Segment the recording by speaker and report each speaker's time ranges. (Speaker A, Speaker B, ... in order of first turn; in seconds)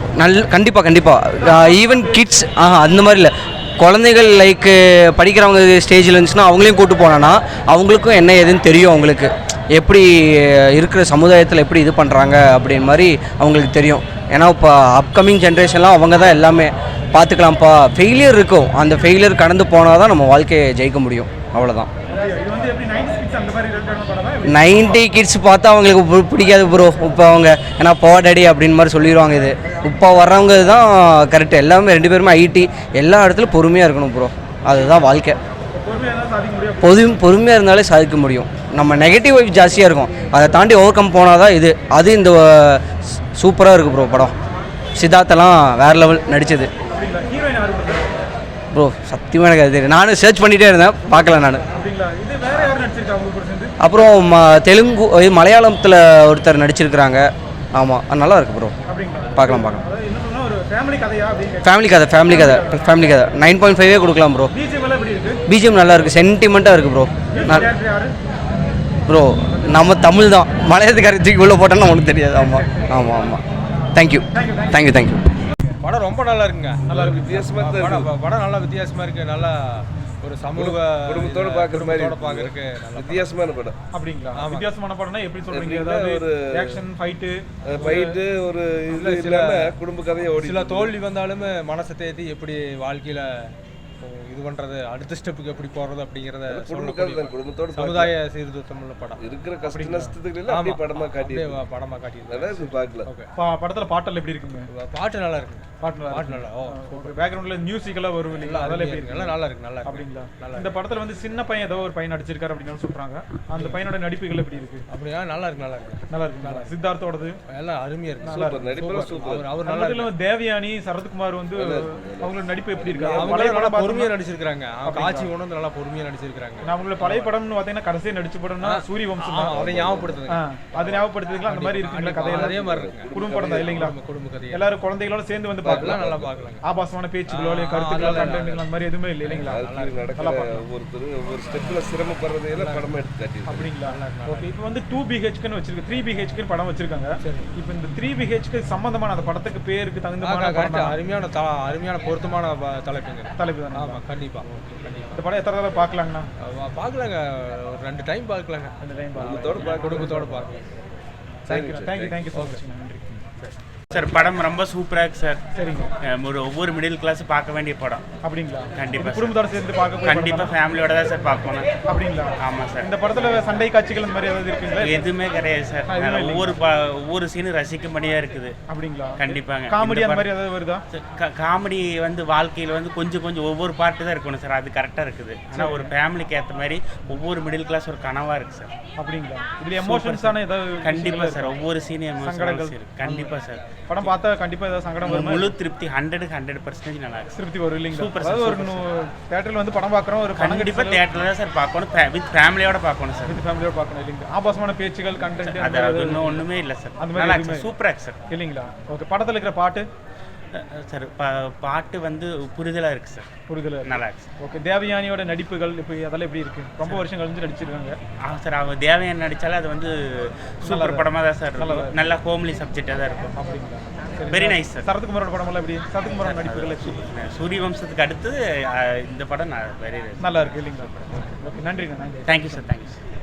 Speaker A: 0.2-21.9, 24.4-35.4, 36.8-42.8, 43.4-44.3, 45.0-46.7, 48.7-51.6, 53.8-58.7, 59.3-59.8, 61.6-64.5, 65.5-67.7, 69.1-73.4, 73.9-75.2
Speaker B: 1.4-2.3, 22.1-24.9, 35.7-36.9, 46.9-48.1, 51.7-53.7, 58.9-61.7, 62.2-63.0, 64.5-65.4, 67.3-68.1, 74.3-74.8, 76.9-77.2, 83.9-88.1, 99.7-100.1, 103.3-104.7, 105.8-114.8, 116.1-117.4, 118.2-118.8, 119.6-124.1, 124.8-125.3, 126.6-129.6, 130.3-134.0, 134.5-136.0, 136.6-140.6, 143.5-150.9, 153.4-154.0, 155.1-156.3, 158.8-160.3, 161.5-163.2, 165.5-165.9, 168.2-170.5, 171.9-175.1, 175.9-176.6, 178.7-180.8, 185.5-185.9, 189.0-191.6, 192.2-193.3, 193.9-195.5, 197.3-201.0, 203.2-206.4, 207.0-207.7, 208.3-209.8, 213.5-218.0, 220.6-222.0, 223.3-227.0, 230.2-232.7
Speaker C: 75.8-83.4, 84.3-84.7, 87.7-88.1, 88.9-89.8, 90.4-99.3, 100.5-103.3, 104.7-107.1, 108.4-110.8, 113.5-113.8, 114.9-116.7, 117.5-120.1, 123.0-127.3, 128.6-134.7, 135.7-136.6, 137.3-138.7, 139.2-140.1, 142.5-142.9, 143.8-144.5, 147.2-147.5, 150.2-155.2, 156.4-160.5, 162.3-162.6
Speaker D: 76.9-78.1, 80.5-83.8, 85.5-86.8, 87.6-91.0, 96.5-98.2, 99.2-101.7, 102.3-103.1, 118.3-119.5, 121.6-123.5, 129.5-130.2, 132.4-133.9, 135.6-136.5, 139.4-143.7, 159.2-160.5, 161.5-162.2
Speaker E: 163.4-165.4, 166.1-168.0, 168.8-169.4, 170.0-171.7, 172.4-172.9, 174.8-178.5, 179.2-180.3, 180.9-188.7, 189.8-194.1, 195.1-197.3, 197.9-198.8, 200.3-203.4, 205.3-208.2, 210.5-213.3, 213.8-214.3, 218.2-223.3, 224.3-224.8, 226.2-230.3, 232.2-233.0